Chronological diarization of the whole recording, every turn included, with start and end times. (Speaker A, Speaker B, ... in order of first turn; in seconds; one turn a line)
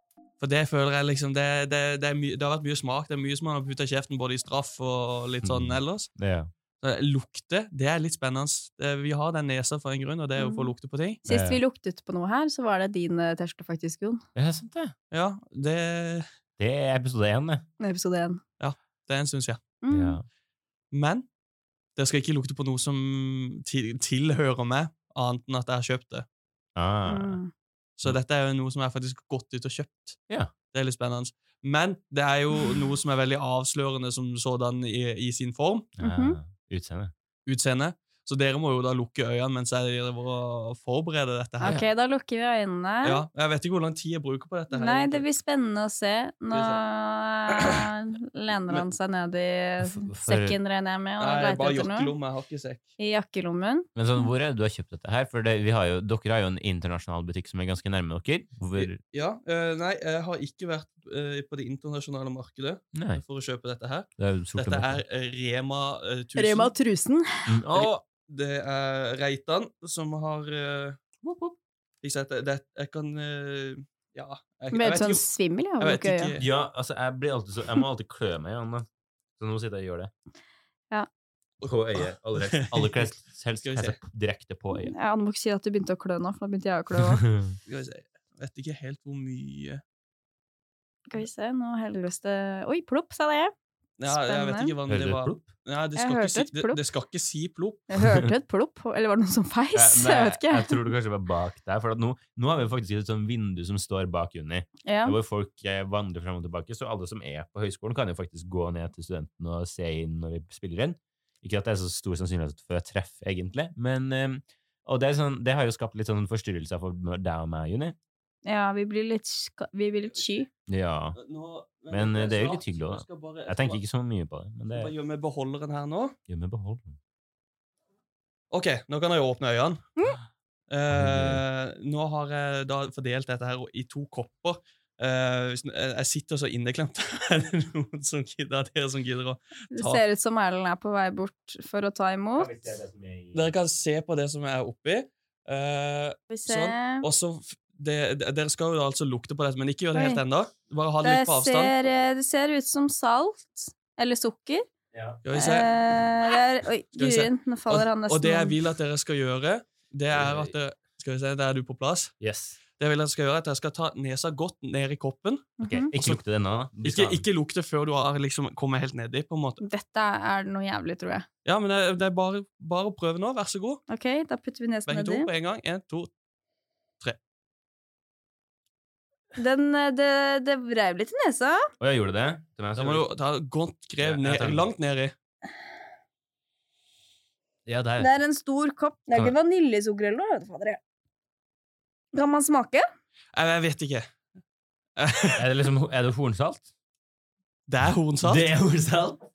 Speaker A: 0.4-6.1
Speaker B: 5.4-6.5
Speaker A: 6.8-11.2
Speaker C: 10.4-10.7
Speaker C: 11.2-14.2
Speaker B: 11.3-11.6
Speaker B: 14.3-14.9
Speaker A: 15.1-16.3
Speaker B: 16.6-17.6
Speaker C: 17.8-18.4
Speaker A: 18.6-19.6
Speaker C: 19.8-20.2
Speaker B: 19.9-20.2
Speaker A: 20.9-21.2
Speaker A: 21.9-26.2
Speaker B: 26.8-27.4
Speaker C: 27.1-27.5
Speaker A: 28.0-35.9
Speaker B: 36.0-37.1
Speaker C: 36.0-36.4
Speaker A: 37.5-41.8
Speaker C: 41.6-43.2
Speaker A: 43.0-45.2
Speaker C: 44.7-52.1
Speaker A: 46.5-46.8
Speaker A: 47.5-47.9
Speaker B: 49.9-50.6
Speaker A: 51.2-52.8
Speaker C: 53.0-54.2
Speaker B: 54.0-59.0
Speaker A: 58.8-66.7
Speaker B: 62.9-63.2
Speaker B: 64.2-65.0
Speaker C: 66.3-67.5
Speaker B: 67.5-68.0
Speaker A: 67.7-71.0
Speaker B: 71.2-71.5
Speaker A: 72.0-75.2
Speaker C: 74.7-76.3
Speaker A: 75.8-76.5
Speaker B: 76.4-78.8
Speaker B: 79.4-80.1
Speaker B: 81.6-84.9
Speaker A: 82.5-82.9
Speaker A: 83.6-84.0
Speaker C: 84.7-87.2
Speaker B: 87.0-87.5
Speaker A: 87.7-89.8
Speaker C: 91.1-93.5
Speaker A: 94.0-97.9
Speaker C: 94.1-94.7
Speaker B: 94.9-95.5
Speaker C: 96.0-96.8
Speaker C: 97.9-100.8
Speaker B: 99.7-118.0
Speaker C: 104.8-105.2
Speaker C: 118.5-120.5
Speaker B: 120.7-121.2
Speaker A: 121.2-123.8
Speaker B: 121.9-124.9
Speaker A: 124.7-126.2
Speaker B: 126.3-127.0
Speaker A: 128.5-129.8
Speaker A: 130.7-140.0
Speaker B: 130.9-131.4
Speaker C: 139.7-142.5
Speaker B: 142.4-143.5
Speaker A: 143.3-151.7
Speaker C: 146.3-147.1
Speaker C: 149.9-150.2
Speaker C: 151.0-154.7
Speaker B: 154.9-155.2
Speaker A: 155.2-155.7
Speaker C: 155.3-158.6
Speaker A: 157.0-162.1
Speaker B: 160.1-160.5
Speaker B: 162.2-162.6
Speaker A: 162.8-166.2
Speaker C: 165.6-165.9
Speaker B: 165.6-167.2
Speaker A: 166.8-169.6
Speaker C: 169.6-171.2
Speaker A: 171.4-173.8
Speaker C: 173.9-175.3
Speaker A: 174.9-176.1
Speaker C: 179.3-181.7
Speaker B: 181.8-183.0
Speaker A: 182.8-185.1
Speaker B: 184.0-184.7
Speaker B: 187.7-188.1
Speaker C: 188.0-190.8
Speaker C: 192.1-192.8
Speaker A: 193.3-194.1
Speaker A: 195.0-195.4
Speaker B: 195.4-196.7
Speaker A: 197.7-198.4
Speaker B: 198.2-199.2